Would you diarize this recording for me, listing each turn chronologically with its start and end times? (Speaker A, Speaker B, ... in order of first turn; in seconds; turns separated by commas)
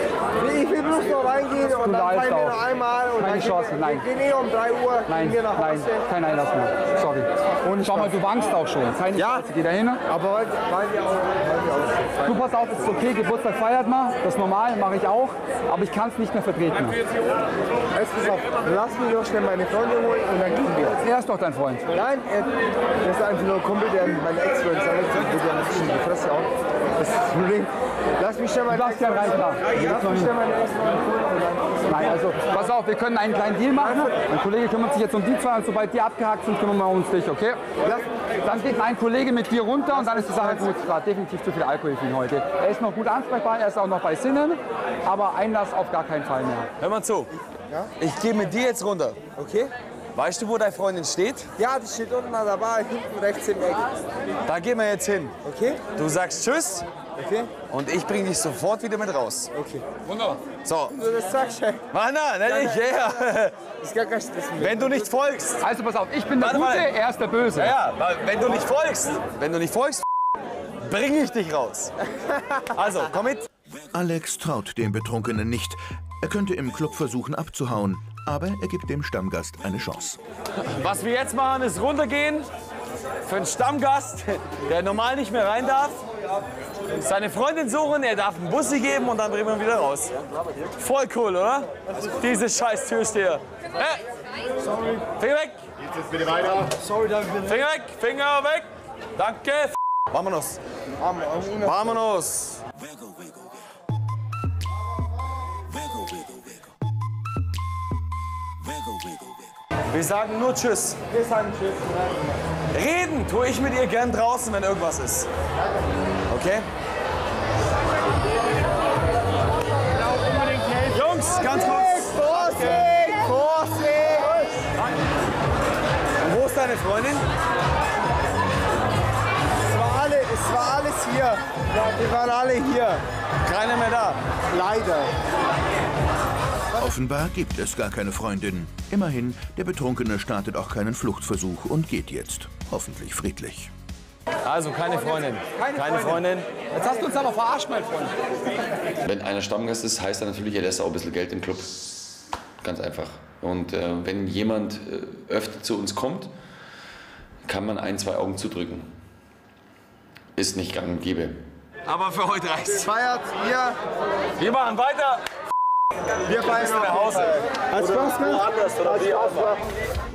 Speaker A: 0.4-6.0, Speaker B: 1.6-2.6, Speaker B: 3.1-4.1, Speaker B: 5.1-10.0, Speaker A: 7.6-8.1, Speaker A: 10.1-12.2, Speaker B: 12.2-17.0, Speaker A: 17.9-21.0, Speaker B: 21.0-21.9, Speaker A: 21.9-31.9, Speaker B: 28.7-30.3, Speaker B: 31.9-37.7, Speaker A: 33.8-34.1, Speaker B: 38.4-46.7, Speaker A: 40.0-40.5, Speaker C: 46.8-47.3, Speaker C: 48.0-49.2, Speaker A: 49.4-49.7, Speaker C: 50.1-51.5, Speaker A: 51.6-54.0, Speaker C: 54.5-55.4, Speaker A: 55.4-55.9, Speaker C: 55.9-56.9, Speaker A: 57.2-57.6, Speaker C: 57.6-59.5, Speaker A: 59.5-59.9, Speaker B: 60.1-60.4, Speaker C: 60.6-61.0, Speaker A: 60.9-61.9, Speaker C: 61.9-63.6, Speaker A: 62.6-62.9, Speaker A: 63.8-65.1, Speaker C: 64.6-65.6, Speaker B: 65.6-67.8, Speaker C: 66.4-66.9, Speaker C: 67.6-70.0, Speaker C: 70.8-71.9, Speaker C: 72.7-73.5, Speaker D: 73.9-80.2, Speaker C: 80.7-82.5, Speaker C: 83.2-86.0, Speaker C: 87.0-90.2, Speaker C: 90.8-94.0, Speaker C: 95.2-95.6, Speaker C: 97.4-100.6, Speaker A: 101.0-101.7, Speaker C: 101.6-102.6, Speaker C: 109.9-111.0, Speaker A: 111.1-112.0, Speaker C: 112.7-115.3, Speaker C: 116.3-116.7, Speaker C: 120.8-122.9, Speaker A: 121.7-124.7, Speaker C: 126.2-127.3, Speaker A: 129.6-133.0, Speaker C: 133.4-134.2, Speaker A: 134.5-135.1, Speaker D: 136.8-143.7, Speaker C: 144.4-146.5, Speaker B: 145.6-148.1, Speaker E: 149.0-151.8, Speaker E: 152.6-156.3, Speaker E: 157.4-158.9, Speaker E: 160.4-161.4, Speaker C: 161.9-163.0, Speaker A: 163.0-163.8, Speaker C: 164.4-165.2, Speaker C: 166.3-169.6, Speaker A: 167.8-168.4